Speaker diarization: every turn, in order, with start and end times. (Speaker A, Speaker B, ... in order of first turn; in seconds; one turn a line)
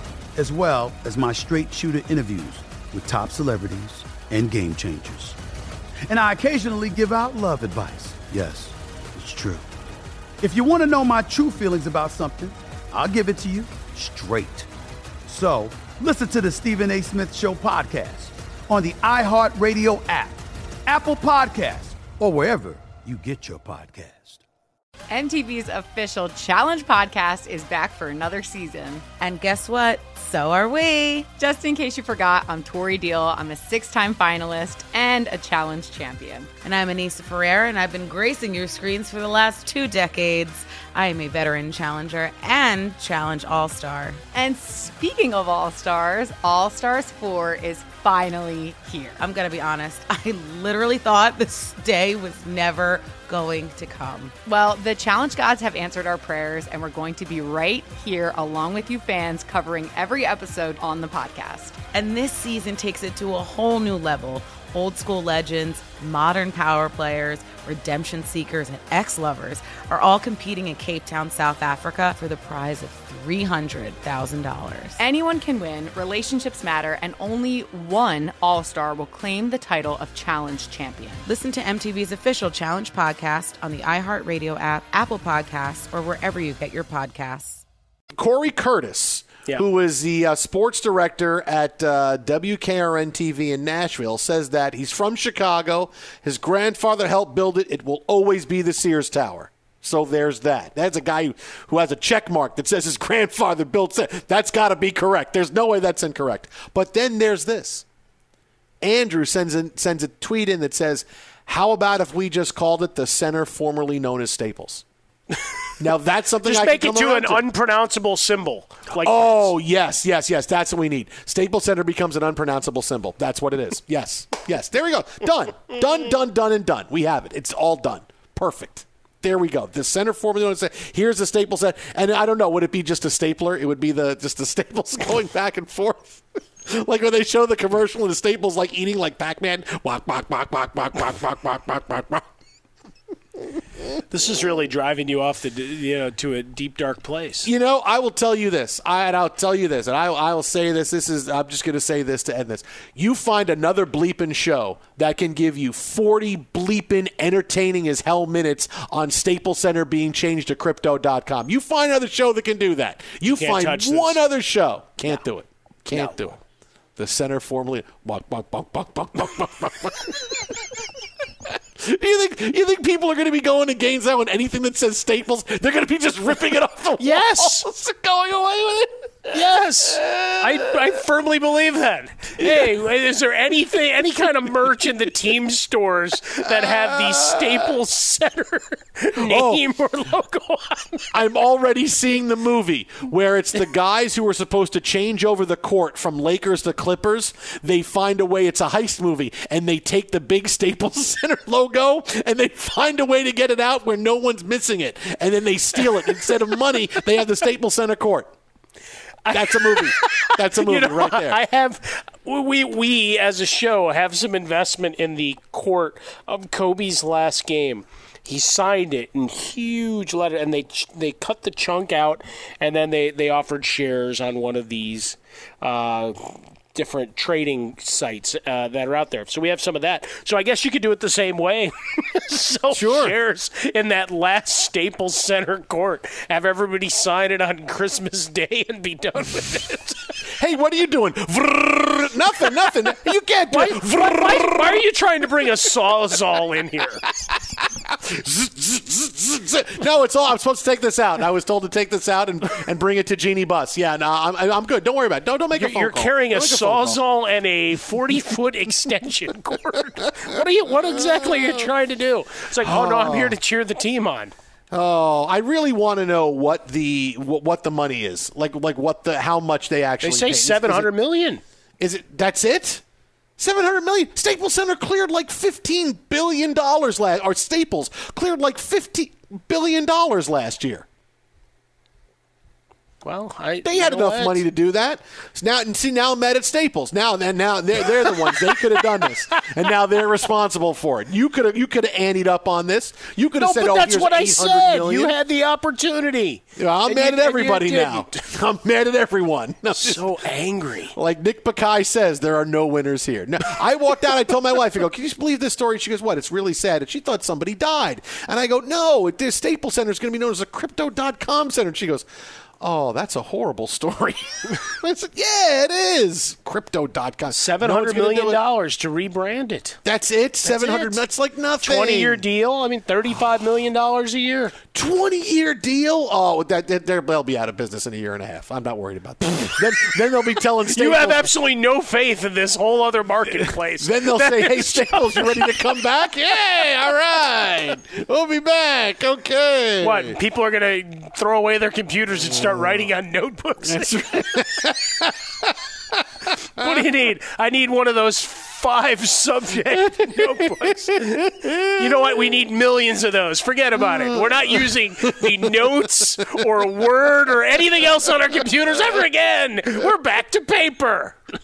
Speaker A: 0.3-5.4
Speaker A: 6.1-9.7
Speaker A: 10.4-14.7
Speaker A: 15.2-24.4
Speaker B: 25.1-29.1
Speaker C: 29.2-31.3
Speaker B: 31.4-36.5
Speaker C: 36.6-44.2
Speaker B: 44.3-49.2
Speaker C: 49.2-54.3
Speaker B: 54.5-61.8
Speaker C: 61.9-75.0
Speaker B: 75.0-81.2
Speaker C: 81.2-87.6
Speaker D: 88.2-107.8
Speaker D: 108.8-114.8
Speaker D: 115.8-117.4
Speaker E: 116.4-119.5
Speaker D: 119.0-142.2
Speaker E: 144.1-147.5
Speaker D: 147.4-166.4
Speaker E: 163.2-164.2
Speaker E: 165.9-166.2
Speaker D: 167.0-170.7
Speaker D: 171.5-179.4
Speaker E: 177.0-177.6
Speaker E: 179.3-191.1
Speaker D: 179.9-180.6
Speaker D: 182.4-182.7
Speaker D: 186.6-187.7
Speaker D: 189.2-189.6
Speaker D: 191.1-208.3
Speaker E: 209.2-240.2
Speaker D: 209.3-211.4
Speaker D: 232.7-233.1
Speaker D: 240.4-244.8
Speaker E: 243.5-247.0
Speaker D: 247.2-257.0
Speaker E: 255.5-264.3
Speaker D: 261.2-261.6
Speaker D: 262.6-263.4
Speaker D: 264.7-270.9
Speaker E: 270.0-271.4
Speaker D: 271.8-272.8
Speaker D: 273.4-280.9
Speaker E: 283.0-284.4
Speaker D: 283.6-295.1
Speaker E: 288.0-289.1
Speaker E: 293.4-298.3
Speaker D: 296.6-300.0
Speaker E: 299.7-300.9
Speaker D: 300.9-312.1
Speaker D: 312.6-318.4
Speaker E: 317.3-319.8
Speaker D: 319.8-322.2
Speaker E: 320.4-321.0
Speaker E: 321.6-324.6
Speaker D: 324.7-331.3
Speaker E: 330.7-335.7
Speaker D: 333.8-340.1
Speaker E: 339.8-344.4
Speaker D: 342.3-342.6
Speaker D: 343.6-345.9
Speaker E: 346.6-361.1
Speaker D: 349.9-350.4
Speaker D: 351.1-352.2
Speaker D: 353.8-354.7